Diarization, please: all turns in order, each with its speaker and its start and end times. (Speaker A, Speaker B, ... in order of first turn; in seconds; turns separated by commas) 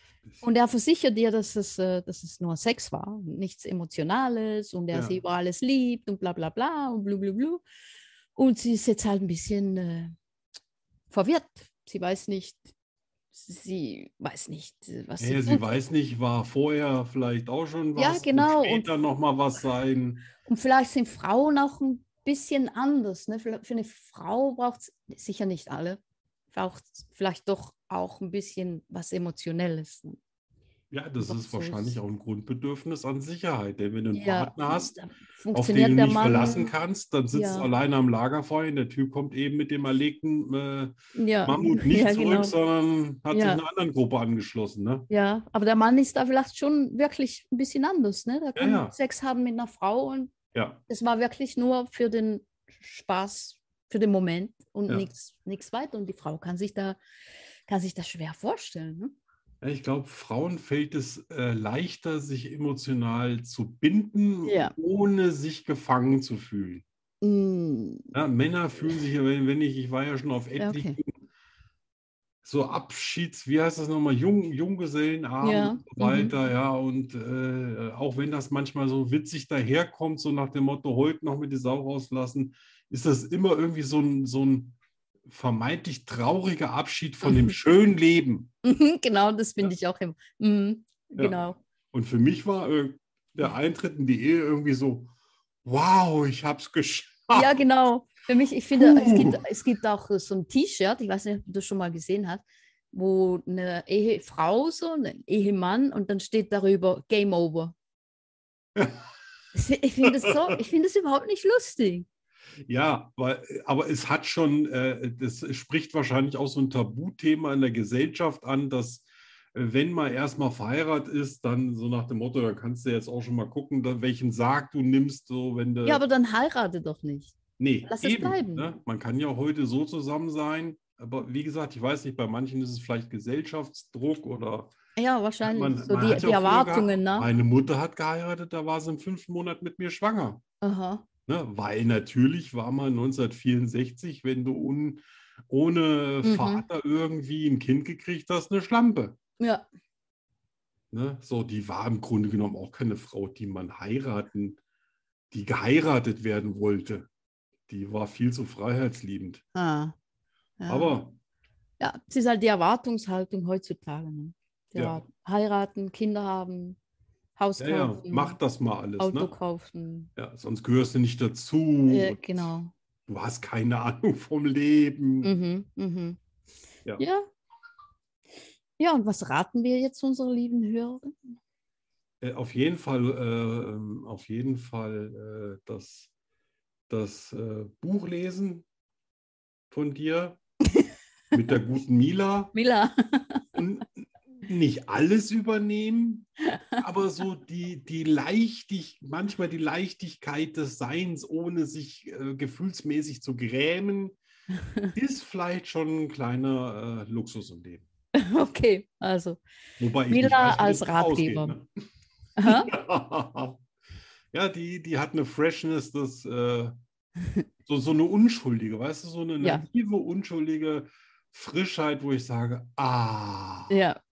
Speaker A: 0.4-7.6, Speaker B: 4.9-5.2, Speaker A: 8.3-10.1, Speaker A: 11.1-12.7, Speaker A: 13.3-15.7, Speaker B: 15.2-20.2, Speaker A: 17.9-18.9, Speaker A: 20.4-26.0, Speaker A: 26.5-30.2, Speaker B: 30.9-34.9, Speaker A: 31.2-32.0, Speaker A: 34.1-36.7, Speaker B: 35.5-45.1, Speaker A: 37.3-37.7, Speaker A: 41.1-42.5, Speaker A: 43.3-43.6, Speaker A: 45.1-50.3, Speaker B: 48.5-48.9, Speaker B: 50.5-50.8, Speaker A: 50.9-57.0, Speaker A: 57.7-59.1, Speaker B: 59.6-66.8, Speaker A: 64.5-64.7, Speaker A: 67.2-68.1, Speaker B: 68.1-71.1, Speaker A: 70.6-71.0, Speaker B: 72.4-88.5, Speaker A: 75.4-76.3, Speaker A: 88.6-91.6, Speaker B: 91.9-95.1, Speaker B: 95.6-97.6, Speaker A: 97.3-107.7, Speaker B: 98.7-99.4, Speaker B: 108.8-109.0, Speaker A: 109.5-112.0, Speaker B: 110.0-110.5, Speaker B: 112.7-126.0, Speaker A: 125.8-128.7, Speaker B: 127.6-134.7, Speaker A: 135.0-137.3, Speaker B: 135.4-140.4, Speaker A: 140.6-141.0, Speaker B: 141.3-149.2, Speaker A: 146.2-146.6, Speaker A: 149.4-149.6, Speaker B: 150.9-154.6, Speaker B: 155.3-157.1, Speaker B: 157.7-159.4, Speaker A: 159.5-159.9, Speaker A: 160.6-160.9, Speaker B: 160.7-161.2, Speaker A: 161.8-166.8, Speaker B: 164.7-165.0, Speaker A: 167.4-168.4, Speaker B: 167.6-169.3, Speaker A: 169.0-170.1, Speaker B: 170.2-172.5, Speaker A: 171.9-172.7, Speaker B: 173.1-175.3, Speaker A: 175.2-176.2, Speaker A: 177.0-177.2, Speaker A: 178.8-181.3, Speaker B: 182.2-186.1, Speaker B: 186.9-188.6, Speaker B: 189.7-190.4, Speaker B: 191.3-192.5, Speaker A: 192.5-193.4, Speaker B: 193.5-204.2, Speaker B: 204.9-207.8, Speaker A: 208.1-209.4, Speaker B: 209.8-211.7, Speaker A: 210.1-211.6, Speaker A: 212.4-212.7, Speaker B: 212.4-213.6, Speaker B: 214.3-216.7, Speaker B: 217.7-223.7, Speaker A: 219.4-219.7, Speaker A: 223.7-224.0